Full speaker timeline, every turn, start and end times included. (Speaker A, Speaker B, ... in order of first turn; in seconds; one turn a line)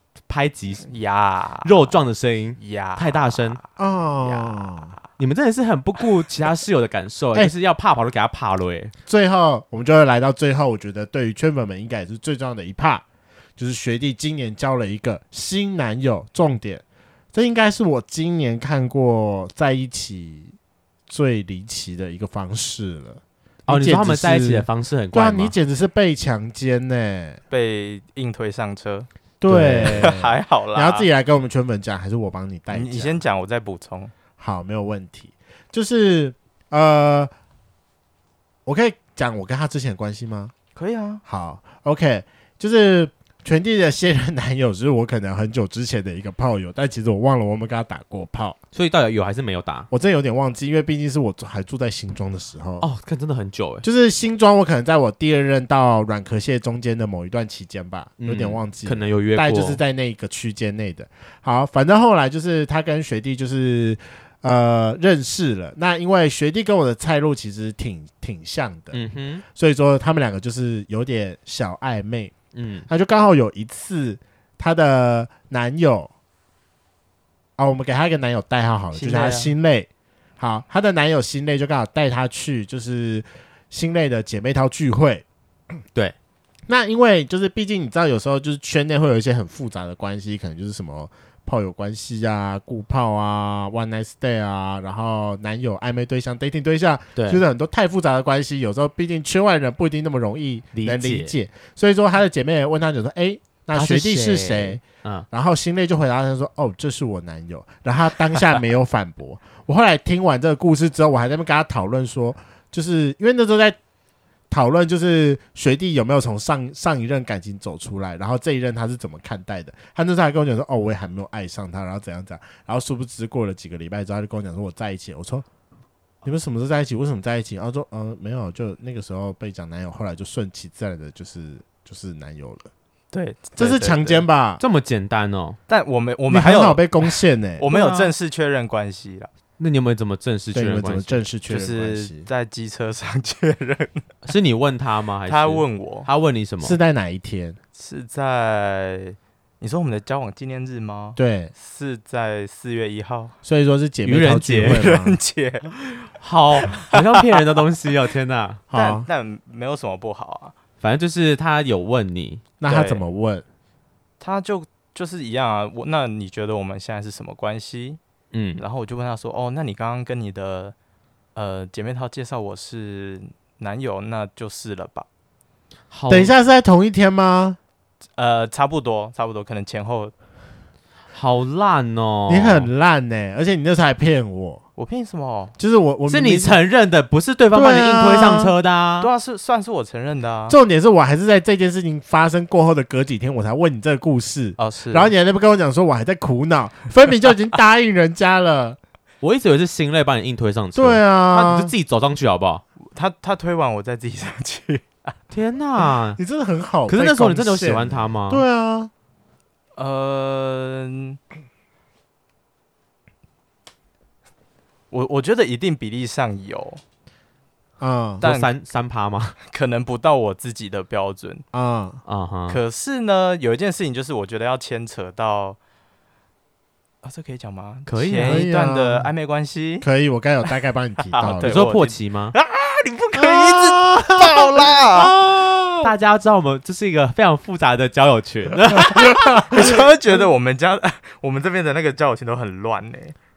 Speaker A: 0.3-0.9
Speaker B: 0.9-1.8
Speaker A: 1.6-3.6
Speaker B: 2.6-3.6
Speaker C: 3.8-4.9
Speaker B: 4.2-5.0
Speaker A: 5.2-8.9
Speaker C: 9.1-13.0
Speaker C: 13.6-20.5
Speaker C: 21.1-27.4
Speaker A: 23.7-25.5
Speaker B: 27.5-29.1
Speaker C: 29.4-33.2
Speaker A: 29.5-30.1
Speaker B: 29.8-31.1
Speaker B: 32.7-34.1
Speaker C: 34.4-37.3
Speaker C: 38.6-40.5
Speaker B: 40.7-41.2
Speaker C: 41.2-48.6
Speaker A: 48.7-49.9
Speaker C: 49.9-52.9
Speaker A: 52.8-53.9
Speaker C: 53.8-69.0
Speaker A: 58.2-59.8
Speaker A: 68.9-69.4
Speaker C: 69.5-72.3
Speaker A: 72.5-72.9
Speaker C: 72.9-76.1
Speaker C: 77.6-85.2
Speaker B: 78.9-79.5
Speaker C: 86.7-113.8
Speaker A: 97.2-97.4
Speaker A: 100.7-101.3
Speaker A: 103.7-105.2
Speaker C: 114.5-125.4
Speaker C: 126.2-132.7
Speaker B: 133.1-134.2
Speaker C: 133.6-134.6
Speaker A: 134.6-135.6
Speaker B: 135.7-139.3
Speaker C: 136.3-137.7
Speaker A: 137.7-138.1
Speaker A: 139.6-141.2
Speaker C: 140.5-142.3
Speaker B: 141.5-144.1
Speaker A: 144.2-146.8
Speaker B: 145.3-146.1
Speaker C: 146.6-147.6
Speaker B: 147.8-153.3
Speaker C: 151.2-151.5
Speaker C: 153.4-155.2
Speaker A: 154.0-154.8
Speaker B: 154.7-155.7
Speaker A: 156.2-158.6
Speaker B: 156.6-157.4
Speaker C: 158.7-159.1
Speaker B: 158.7-160.5
Speaker A: 160.8-162.4
Speaker C: 162.6-163.4
Speaker B: 162.7-163.0
Speaker B: 164.2-168.0
Speaker A: 168.3-168.6
Speaker B: 168.6-170.7
Speaker B: 171.3-175.1
Speaker A: 175.9-176.3
Speaker C: 176.1-177.6
Speaker B: 178.2-180.1
Speaker A: 181.1-182.7
Speaker C: 182.3-184.6
Speaker B: 184.8-185.5
Speaker C: 185.6-186.6
Speaker A: 186.1-189.1
Speaker C: 187.5-188.5
Speaker B: 189.0-190.6
Speaker C: 190.5-198.8
Speaker B: 194.6-195.1
Speaker A: 199.2-202.6
Speaker C: 200.7-201.7
Speaker B: 202.9-205.1
Speaker A: 205.3-206.2
Speaker C: 206.2-208.9
Speaker A: 206.9-208.4
Speaker B: 209.8-211.2
Speaker B: 214.9-216.8
Speaker C: 217.8-218.2
Speaker B: 218.2-218.5
Speaker A: 218.2-219.4
Speaker B: 219.5-221.4
Speaker C: 221.5-222.0
Speaker A: 222.1-222.6
Speaker B: 222.5-225.6
Speaker B: 227.0-229.8
Speaker A: 227.9-228.4
Speaker C: 228.2-229.1
Speaker C: 229.8-231.6
Speaker B: 231.1-235.1
Speaker A: 231.3-232.3
Speaker C: 233.2-235.9
Speaker A: 235.8-239.2
Speaker C: 238.8-239.7
Speaker B: 238.8-243.1